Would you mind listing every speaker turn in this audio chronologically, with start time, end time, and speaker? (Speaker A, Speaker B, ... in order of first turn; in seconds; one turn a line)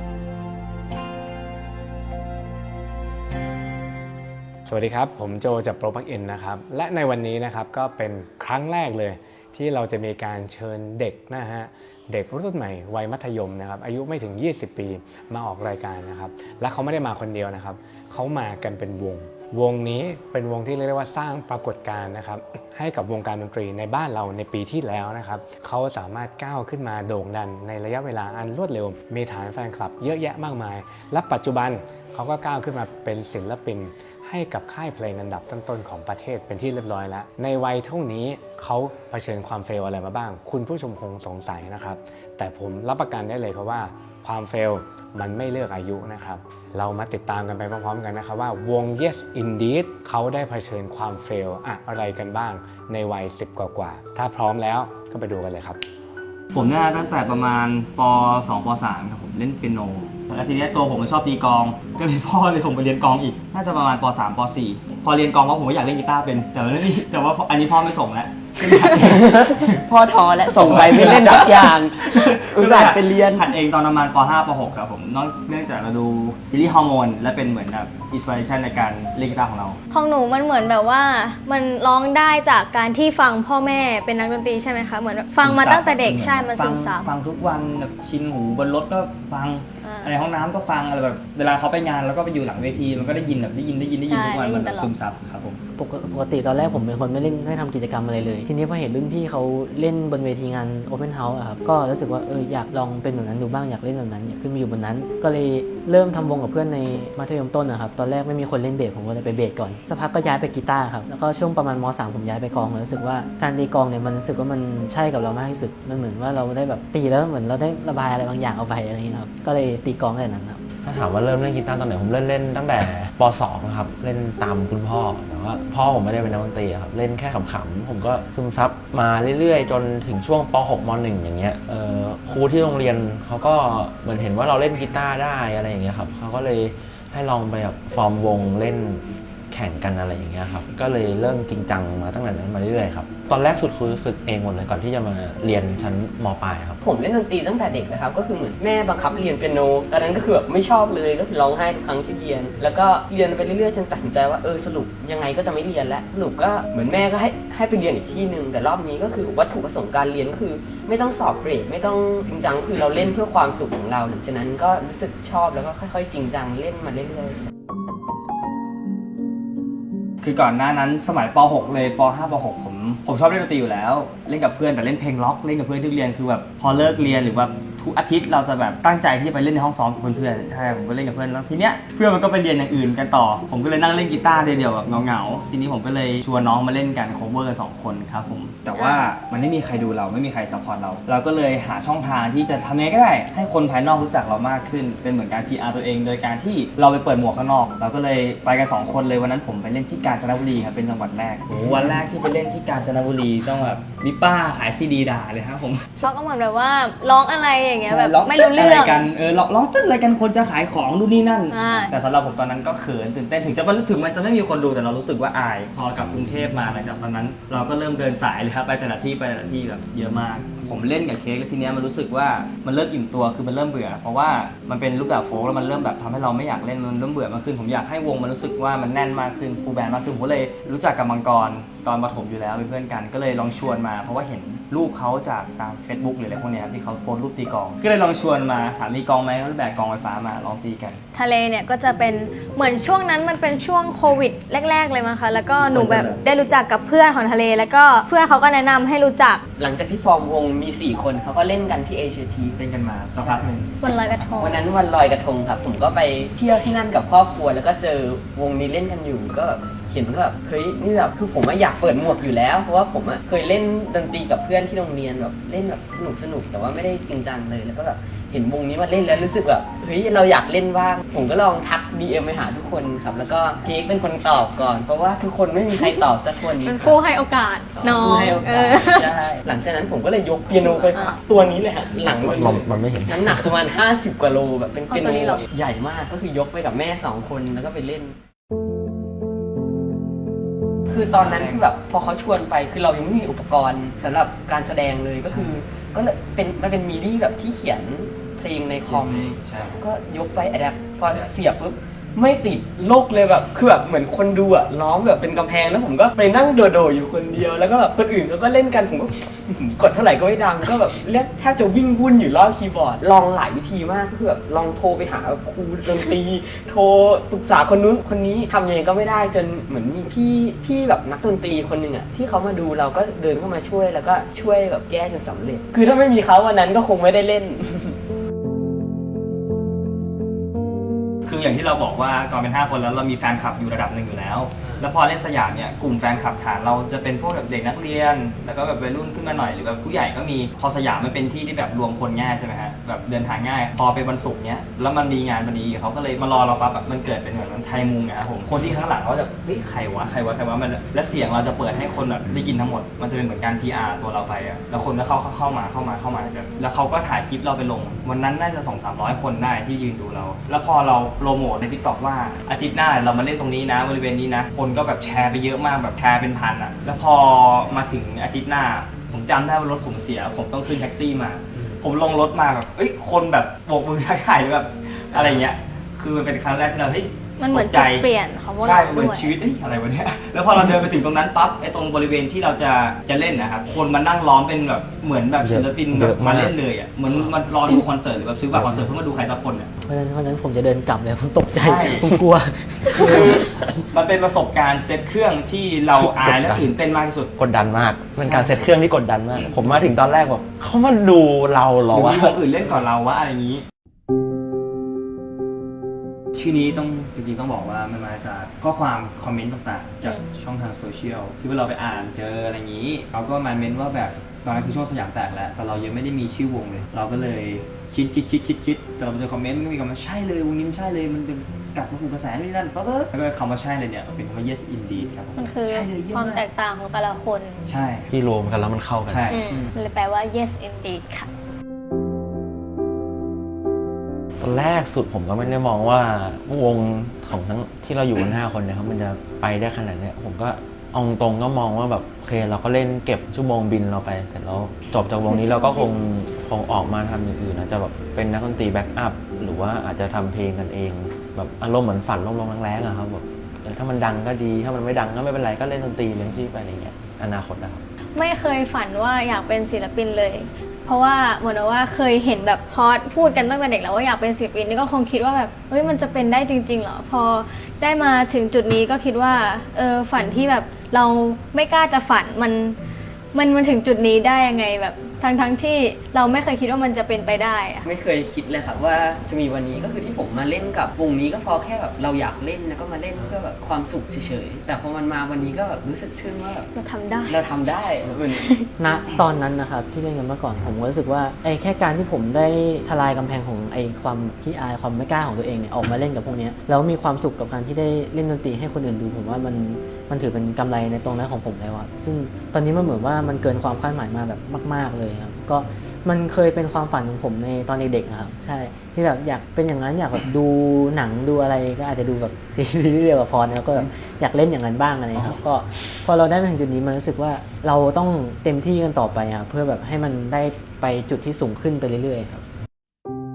Speaker A: 4.7-55.8
Speaker B: 56.5-69.8
Speaker C: 68.6-73.5
Speaker B: 70.5-79.8
Speaker D: 79.9-87.0
Speaker B: 85.4-95.6
Speaker D: 89.8-90.1
Speaker D: 94.1-94.9
Speaker E: 95.8-120.6
Speaker F: 120.8-146.8
Speaker C: 146.8-167.4
Speaker B: 170.2-206.1
Speaker D: 188.8-189.1
Speaker D: 206.0-209.1
Speaker B: 207.8-241.0
Speaker D: 211.5-211.9
Speaker D: 241.2-249.4
Speaker B: 245.6-246.2
Speaker C: 249.6-252.6
Speaker B: 252.6-253.7
Speaker C: 253.2-253.5
Speaker D: 253.8-254.6
Speaker C: 254.4-277.0
Speaker D: 275.8-276.0
Speaker D: 276.6-279.2
Speaker C: 277.8-288.2
Speaker D: 280.6-281.2
Speaker F: 282.0-283.5
Speaker D: 284.9-285.4
Speaker C: 290.9-328.0
Speaker B: 291.1-291.7
Speaker B: 295.3-295.6
Speaker B: 298.9-299.8
Speaker B: 301.1-301.3
Speaker B: 331.3-378.1
Speaker D: 377.4-379.4
Speaker B: 378.6-389.7
Speaker F: 385.4-386.6
Speaker F: 388.5-389.0
Speaker E: 389.9-393.7
Speaker B: 391.6-392.1
Speaker B: 392.9-397.3
Speaker F: 396.0-396.7
Speaker F: 397.4-402.4
Speaker B: 398.2-398.7
Speaker B: 401.9-403.6
Speaker B: 406.4-426.4
Speaker D: 425.4-427.6
Speaker B: 427.7-428.1
Speaker F: 428.1-429.2
Speaker B: 429.1-429.7
Speaker D: 429.3-431.3
Speaker F: 434.4-457.8
Speaker D: 445.3-445.9
Speaker D: 458.2-472.8
Speaker D: 473.3-477.9
Speaker C: 477.9-486.7
Speaker D: 486.8-487.4
Speaker C: 487.3-488.6
Speaker E: 488.8-522.4